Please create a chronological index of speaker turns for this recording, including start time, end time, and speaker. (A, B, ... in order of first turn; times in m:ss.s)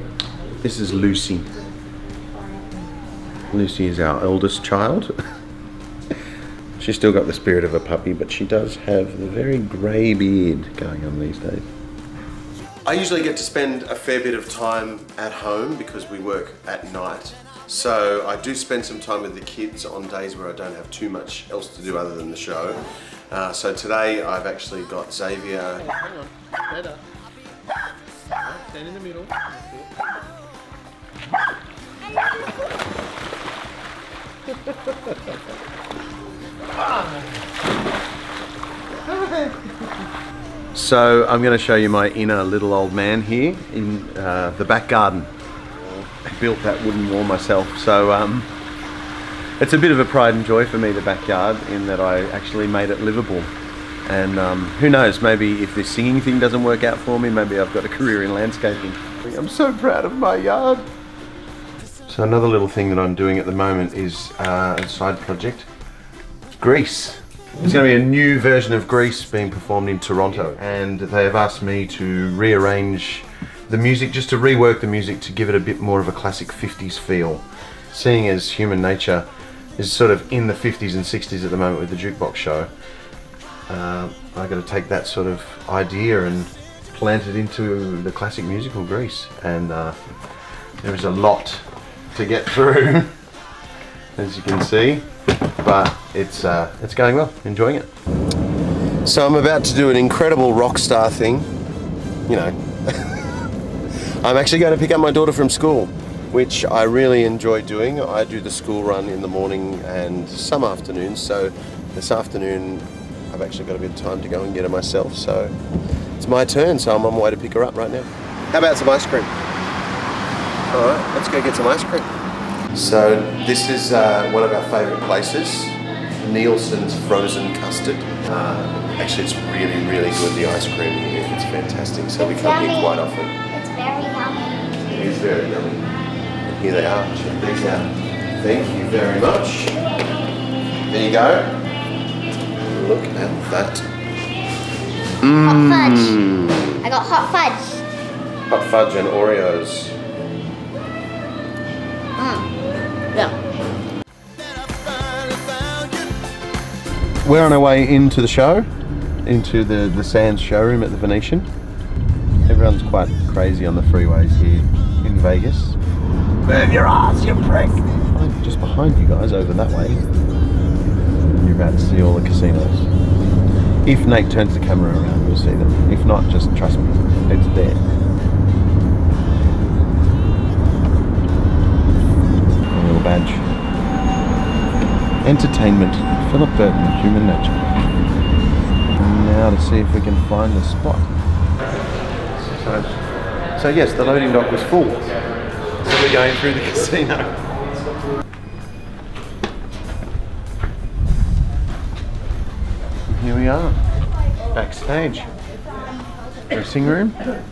0:00.6-0:01.6 A
0:03.5-0:05.1 A
0:06.8-0:11.7 A
0:12.8-0:26.0 A
0:25.9-0:27.0 B
0:28.4-0:29.9 B
0:36.8-0:37.3 A
0:39.1-0:39.6 A
0:40.7-0:45.3 A
0:46.1-0:48.5 A
0:49.6-0:53.5 A
0:54.1-1:00.9 A
1:02.1-1:05.7 A
1:06.5-1:22.7 A
1:23.7-1:30.1 A
1:30.8-1:33.1 A
1:34.2-1:35.1 A
1:35.6-1:37.9 A
1:39.0-1:41.5 A
1:42.3-1:43.2 A
1:44.2-1:55.6 A
1:56.2-1:59.4 A
2:00.7-2:02.1 A
2:02.7-2:13.4 A
2:12.2-2:14.7 C
2:14.9-2:15.9 A
2:16.5-2:19.8 A
2:20.9-2:21.6 A
2:22.6-2:23.9 A
2:25.2-2:26.8 A
2:25.4-2:26.2 C
2:26.8-2:27.9 C
2:28.5-2:30.0 A
2:32.2-2:32.5 C
2:34.7-2:35.9 A
2:37.2-2:38.7 A
2:39.2-2:41.5 A
2:42.5-2:45.8 A
2:46.4-2:50.1 A
2:51.2-2:52.9 A
2:53.8-2:57.8 A
3:02.7-3:03.5 A
3:05.2-3:07.7 A
3:08.9-3:11.1 A
3:12.4-3:17.4 A
3:23.1-3:23.8 A
3:24.5-3:25.3 A
3:26.5-3:27.3 A